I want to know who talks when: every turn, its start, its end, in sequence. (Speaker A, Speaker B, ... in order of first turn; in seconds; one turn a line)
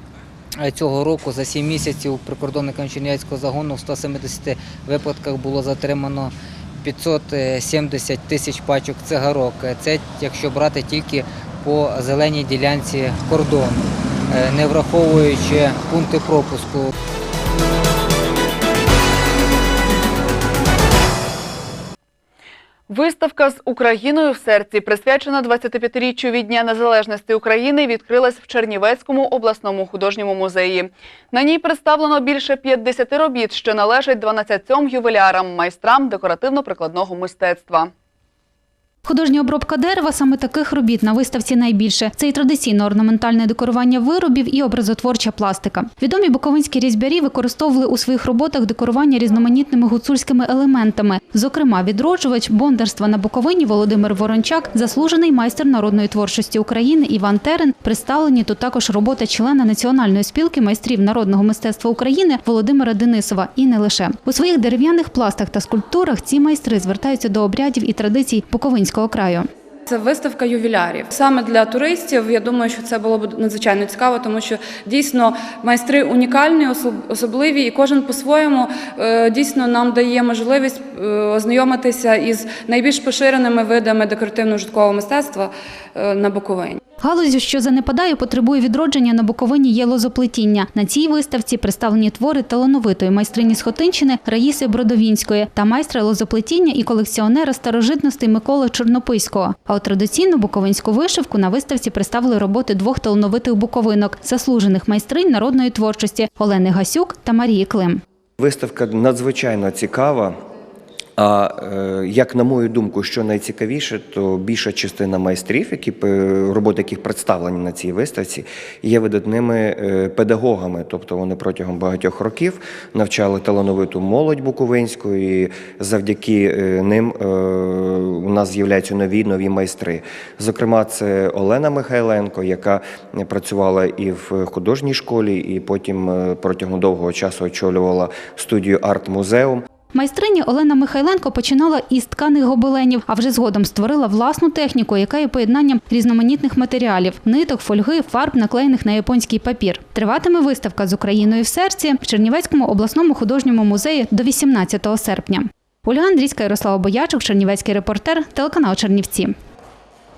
Speaker A: 0.6-16.9
Speaker B: 22.9-37.9
Speaker C: 39.0-69.5
Speaker D: 69.9-86.8
Speaker C: 87.0-108.0
Speaker E: 108.4-110.4
Speaker E: 111.2-139.6
Speaker C: 139.9-159.3